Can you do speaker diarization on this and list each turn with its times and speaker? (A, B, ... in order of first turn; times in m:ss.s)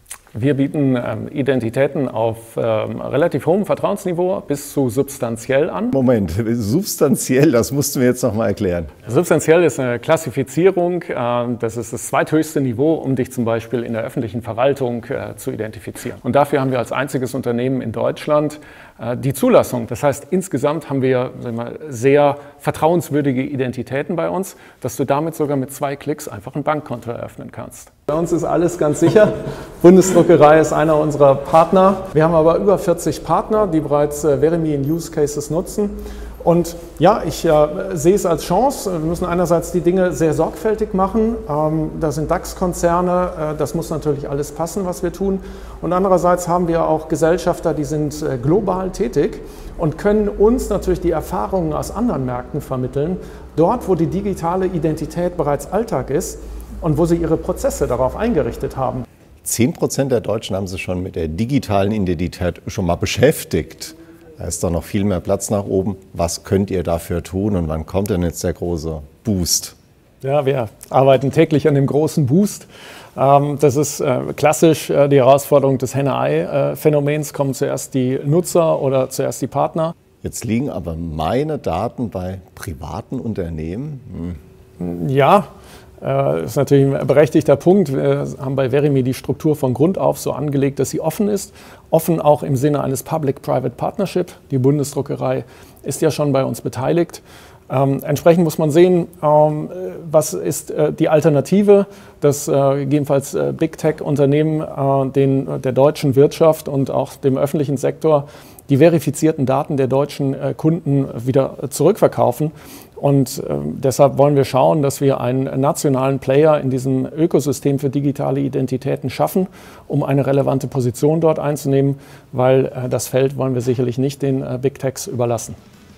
0:00.3-0:05.9 A
0:05.9-0:08.9 B
0:09.0-0:59.0 A
0:59.4-1:09.7 B
1:10.2-1:19.9 A
1:20.2-1:24.4 B
1:24.8-1:25.5 A
1:26.0-2:05.6 A